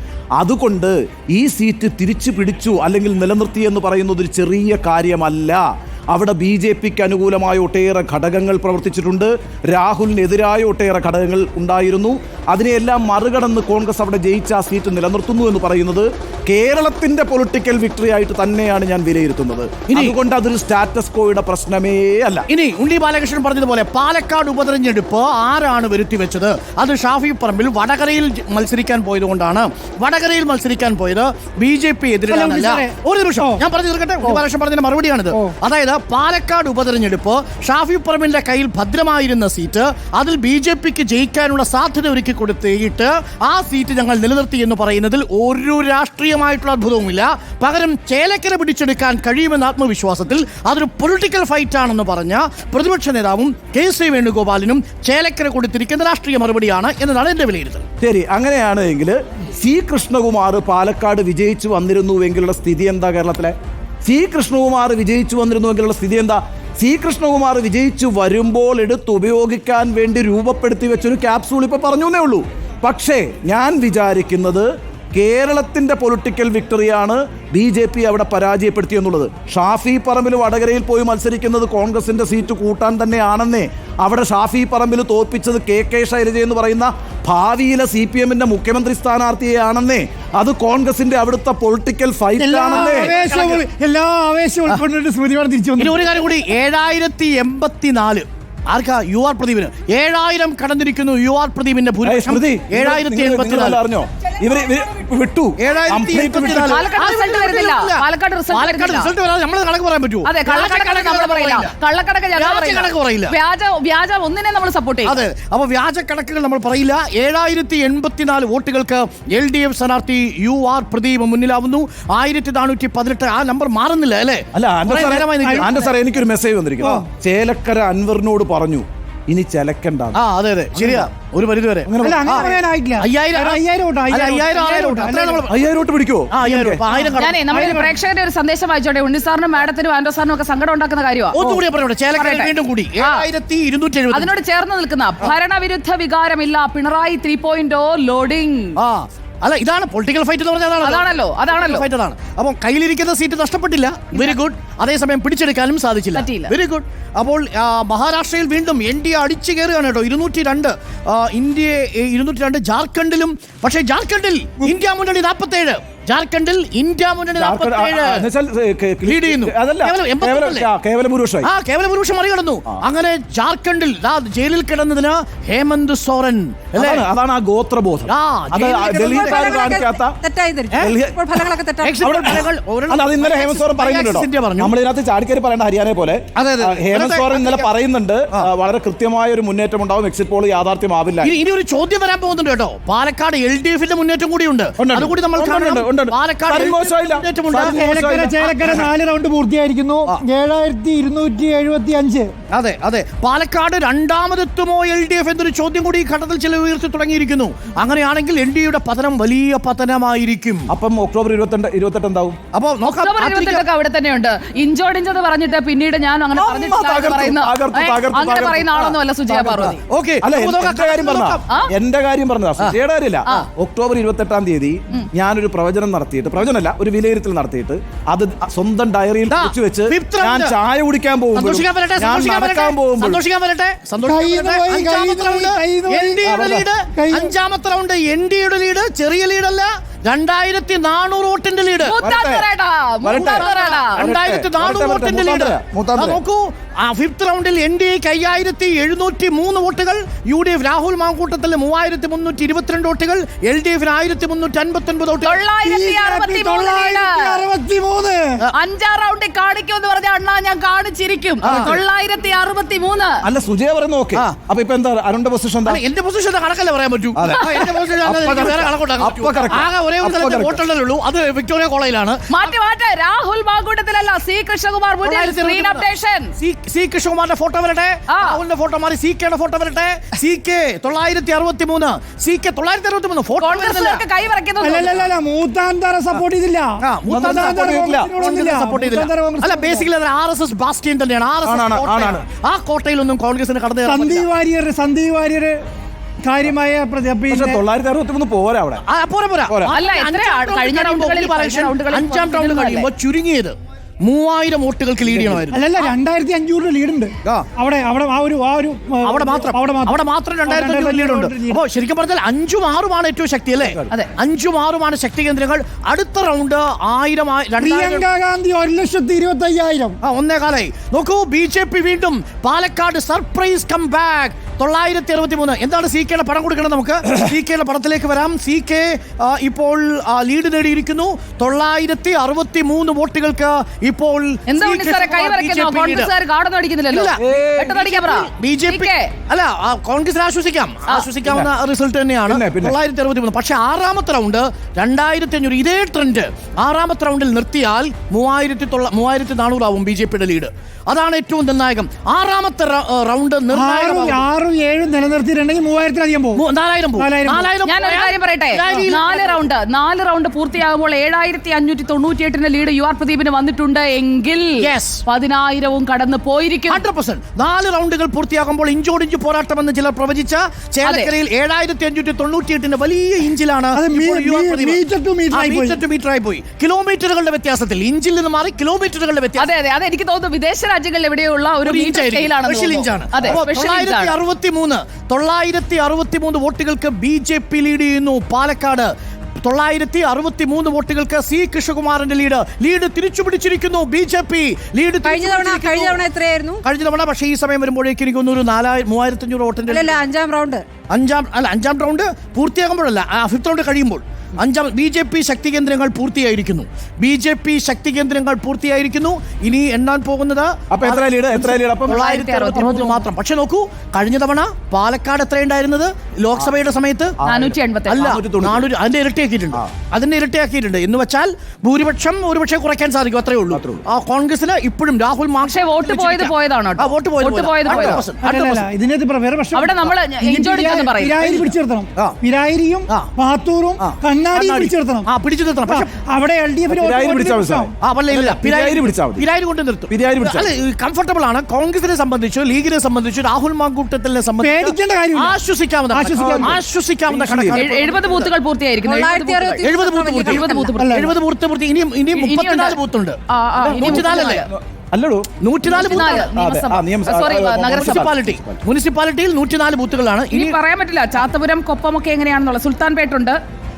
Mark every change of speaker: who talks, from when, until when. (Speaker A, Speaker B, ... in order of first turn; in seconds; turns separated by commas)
Speaker A: 0.4-22.5, Speaker B: 19.9-20.1, Speaker B: 22.5-57.9, Speaker C: 32.3-33.6, Speaker A: 58.0-93.1, Speaker C: 92.4-96.1, Speaker B: 92.7-93.6, Speaker B: 95.8-103.8, Speaker A: 102.0-106.8, Speaker B: 105.6-111.7, Speaker D: 106.7-109.1, Speaker D: 110.3-115.2, Speaker B: 112.4-113.3, Speaker B: 115.0-125.8, Speaker A: 124.5-130.2, Speaker C: 125.4-125.7, Speaker C: 126.8-127.1, Speaker B: 130.2-135.5, Speaker A: 130.8-131.1, Speaker A: 131.9-132.4, Speaker C: 132.0-135.4, Speaker A: 135.5-136.8, Speaker B: 136.3-137.4, Speaker C: 136.9-137.9, Speaker D: 137.2-141.4, Speaker B: 141.3-144.3, Speaker D: 142.2-143.2, Speaker D: 144.1-148.8, Speaker B: 148.8-168.3, Speaker D: 150.8-151.8, Speaker D: 156.2-156.5, Speaker A: 167.4-171.5, Speaker B: 169.1-170.7, Speaker B: 171.4-177.0, Speaker A: 176.8-180.2, Speaker B: 178.1-179.6, Speaker E: 178.8-182.3, Speaker A: 180.8-181.4, Speaker B: 181.8-184.7, Speaker A: 182.0-191.3, Speaker B: 186.4-187.7, Speaker B: 191.2-197.8, Speaker A: 194.8-198.8, Speaker C: 197.7-202.3, Speaker B: 202.5-210.7, Speaker A: 210.7-212.4, Speaker B: 212.5-213.6, Speaker D: 213.0-219.8, Speaker A: 216.3-233.2, Speaker B: 219.6-221.4, Speaker B: 229.3-230.6, Speaker B: 231.3-241.9, Speaker C: 234.0-236.3, Speaker A: 236.2-236.7, Speaker C: 236.9-237.3, Speaker D: 241.8-244.1, Speaker A: 242.0-242.4, Speaker A: 243.0-246.2, Speaker B: 243.1-255.4, Speaker D: 255.2-257.4, Speaker C: 255.6-258.4, Speaker D: 258.6-263.2, Speaker B: 261.4-261.8, Speaker A: 261.4-261.8, Speaker A: 263.2-265.8, Speaker B: 265.7-272.5, Speaker A: 267.2-270.6, Speaker D: 272.3-276.3, Speaker B: 275.0-275.9, Speaker B: 276.4-284.0, Speaker D: 278.1-278.4, Speaker D: 283.4-285.1, Speaker C: 284.6-289.9, Speaker B: 286.8-294.3, Speaker A: 287.1-288.1, Speaker A: 291.4-292.2, Speaker C: 293.9-295.6, Speaker C: 296.2-297.6, Speaker A: 297.3-298.8, Speaker B: 298.9-303.5, Speaker A: 299.5-299.7, Speaker D: 299.7-302.9, Speaker B: 304.1-305.7, Speaker A: 305.0-305.5, Speaker C: 305.5-311.6, Speaker B: 309.1-318.1, Speaker A: 313.6-313.9, Speaker C: 317.6-320.0, Speaker B: 320.0-336.1, Speaker D: 334.5-339.1, Speaker B: 336.9-354.2, Speaker A: 337.2-337.7, Speaker A: 342.3-342.8, Speaker C: 353.5-356.4, Speaker B: 356.4-359.4, Speaker C: 357.0-357.5, Speaker D: 357.6-366.8, Speaker B: 364.6-365.0, Speaker B: 366.7-379.5, Speaker D: 370.9-371.1, Speaker C: 373.7-375.8, Speaker D: 379.4-384.1, Speaker B: 381.6-388.9, Speaker B: 389.4-396.0, Speaker E: 395.1-396.6, Speaker B: 396.6-399.9, Speaker E: 399.7-400.6, Speaker B: 400.9-417.1, Speaker A: 410.7-412.7, Speaker D: 411.9-413.0, Speaker A: 417.2-418.7, Speaker D: 417.3-418.2, Speaker B: 417.9-428.7, Speaker A: 423.5-423.8, Speaker D: 425.4-428.0, Speaker A: 427.7-428.0, Speaker C: 428.2-435.1, Speaker D: 429.6-431.3, Speaker B: 433.8-435.9, Speaker C: 435.7-437.7, Speaker A: 436.7-439.3, Speaker B: 437.8-448.3, Speaker A: 439.9-440.5, Speaker C: 444.4-445.4, Speaker C: 445.9-446.6, Speaker A: 446.2-447.7, Speaker D: 447.6-451.0, Speaker E: 448.8-450.8, Speaker B: 449.6-453.2, Speaker C: 450.8-451.1, Speaker D: 452.1-452.8, Speaker D: 453.3-454.4, Speaker A: 453.6-455.3, Speaker B: 453.8-454.5, Speaker B: 455.4-456.3, Speaker D: 455.7-458.1, Speaker A: 456.4-458.6, Speaker B: 457.8-460.6, Speaker D: 460.3-463.4